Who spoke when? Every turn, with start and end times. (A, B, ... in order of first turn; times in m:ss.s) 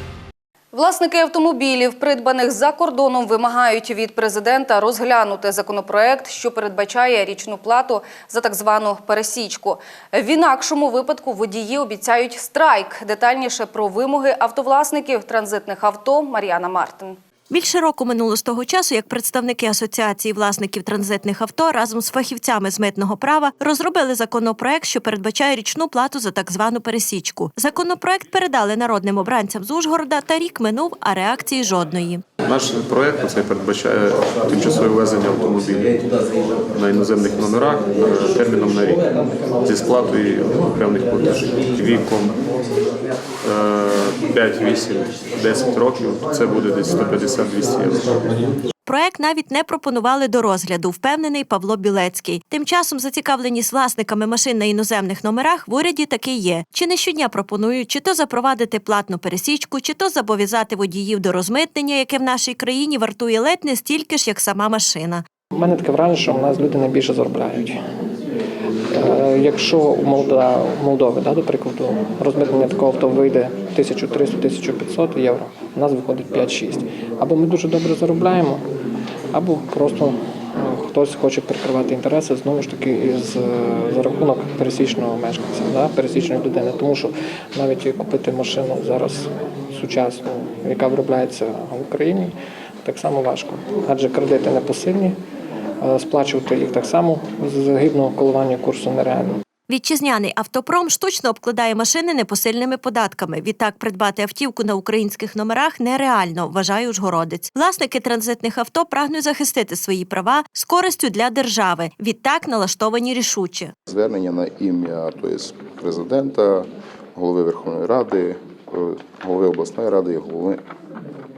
0:00.7-0:17.2 A
0:17.5-0:32.2 B
0:32.4-0:36.0 C
0:36.7-0:39.1 C
0:39.6-0:42.4 C
0:43.4-0:48.5 C
0:48.8-1:05.2 B
1:05.5-1:07.8 D
1:08.9-1:18.6 D
1:19.3-1:35.2 D
1:35.8-1:39.4 D
1:39.7-1:53.7 B
1:53.9-2:00.6 E